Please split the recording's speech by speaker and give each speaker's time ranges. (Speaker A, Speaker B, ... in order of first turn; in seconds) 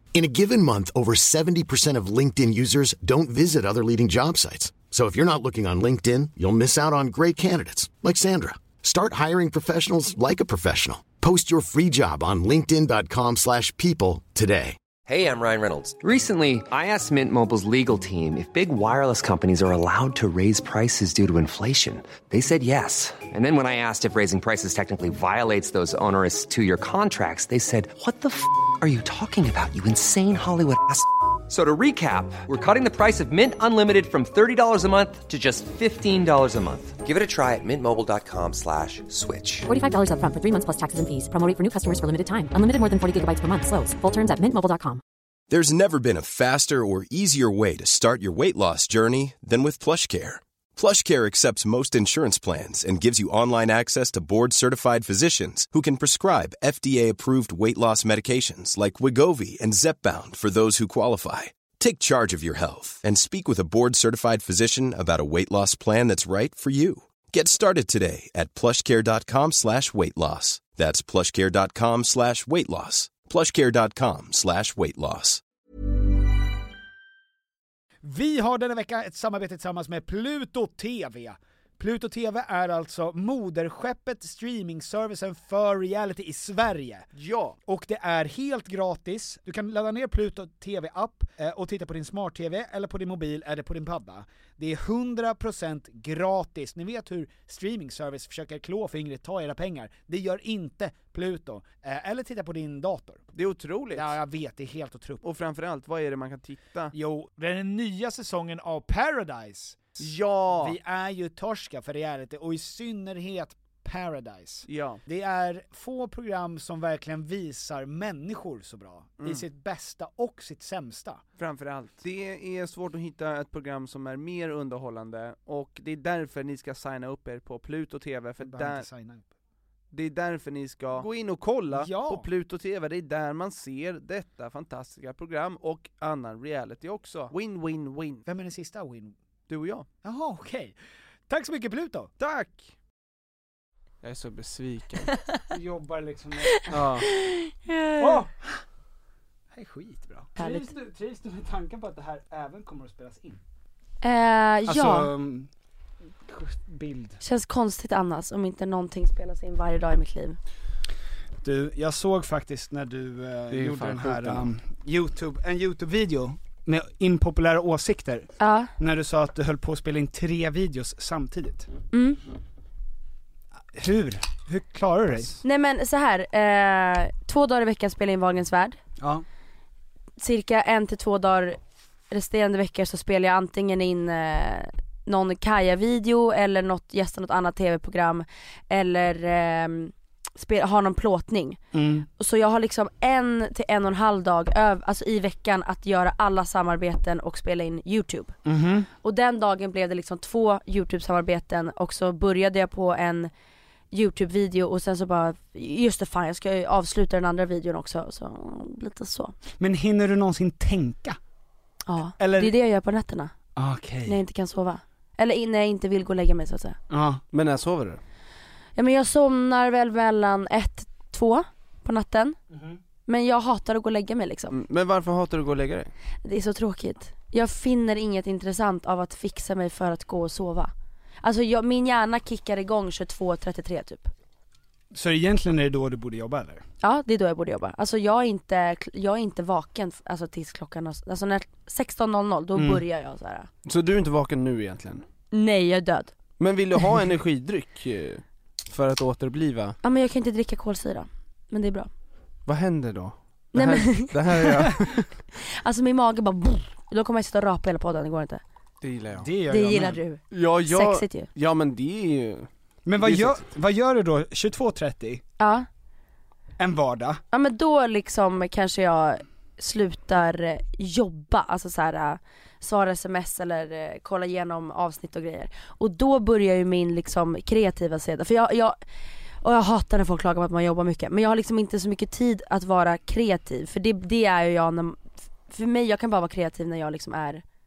Speaker A: 0.1-14.8
Speaker B: 15.0-39.7
Speaker C: 39.7-45.0
Speaker D: 45.5-75.4
Speaker E: 78.0-87.1, 87.7-103.2, 103.9-105.2, 106.9-110.0, 110.5-121.2, 128.4-129.3, 131.7-132.3, 138.2-139.2, 140.0-140.7, 141.3-142.1, 145.5-146.8, 148.0-148.6, 149.5-153.4, 154.7-155.5, 156.2-157.2, 161.4-171.7, 173.7-175.4, 179.0-179.2, 191.7-192.1, 198.4-198.9, 209.6-211.2, 212.2-212.6, 213.6-214.2, 216.9-217.2, 222.5-222.8, 234.9-236.6, 242.5-242.8, 259.2-260.0, 262.9-265.2, 266.6-267.2
Speaker F: 87.2-87.6, 103.3-104.2, 105.2-106.9, 110.0-110.8, 114.7-115.0, 121.4-128.8, 129.9-138.2, 139.5-139.8, 142.2-142.7, 144.0-145.1, 146.7-147.0, 163.5-164.5, 217.3-218.0, 224.5-225.9, 243.6-245.0, 246.4-249.8, 252.4-255.1, 258.8-259.3, 260.3-263.4
Speaker G: 146.5-148.2, 150.4-150.7, 154.0-155.1, 157.2-160.4, 168.4-168.7, 171.9-172.2, 175.4-178.8, 180.2-181.6, 182.1-191.6, 192.2-198.3, 199.0-203.3, 203.9-209.3, 211.8-213.3, 214.0-216.8, 218.8-222.4, 223.1-224.6, 226.2-230.7, 231.2-234.1, 236.8-243.5, 245.3-246.1, 249.8-251.9, 253.5-254.7, 255.3-258.4, 259.5-261.3, 265.4-265.7, 267.3-278.8, 279.4-287.4